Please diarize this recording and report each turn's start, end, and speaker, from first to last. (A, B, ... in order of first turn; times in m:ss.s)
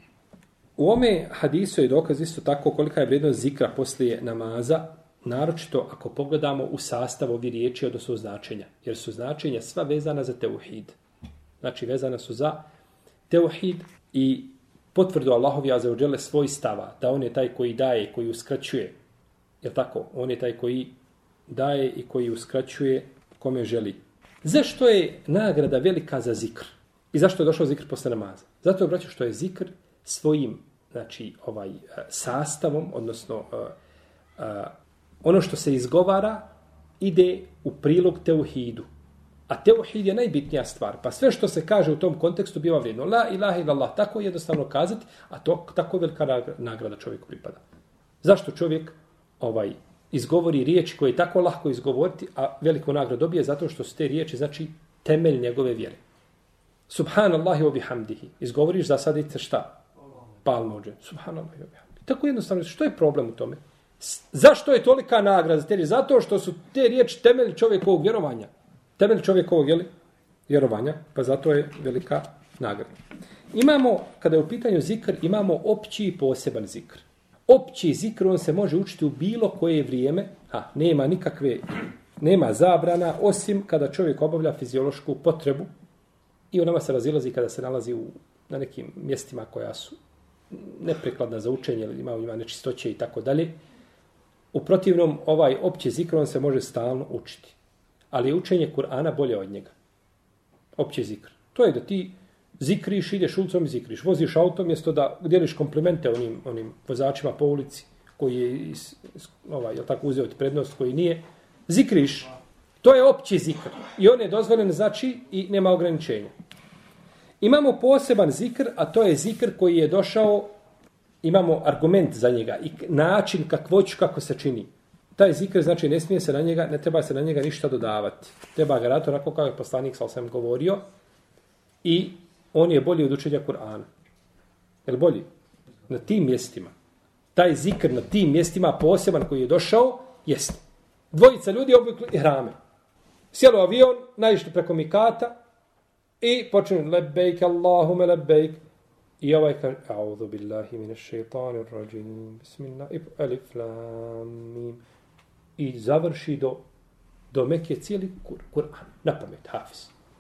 0:00.8-0:11.0 A
0:11.6-0:12.6 A
0:13.3-0:18.9 A
0:19.6-0:21.0 A
0:21.5-0:33.8 A
0:34.4-0:34.7 A
0:35.2-0:36.5 A
0:37.0-0:38.9 A
0:39.5-0:47.6 A
0:48.2-0:56.0 A
0:56.9-0:59.8 A
1:00.4-1:09.9 A
1:10.5-1:13.0 A
1:13.5-1:25.7 A
1:26.5-1:30.0 A
1:30.5-1:33.6 A
1:34.5-1:37.6 A
1:38.1-1:39.7 A
1:40.8-1:56.3 A
1:57.4-2:00.5 A
2:01.2-2:10.8 A
2:11.8-2:13.9 A
2:14.8-2:15.3 A
2:15.9-2:16.7 A
2:17.3-2:22.6 A
2:23.3-2:25.4 A
2:26.2-2:28.6 A
2:29.2-2:34.8 A
2:35.6-2:36.6 A
2:37.3-2:39.9 A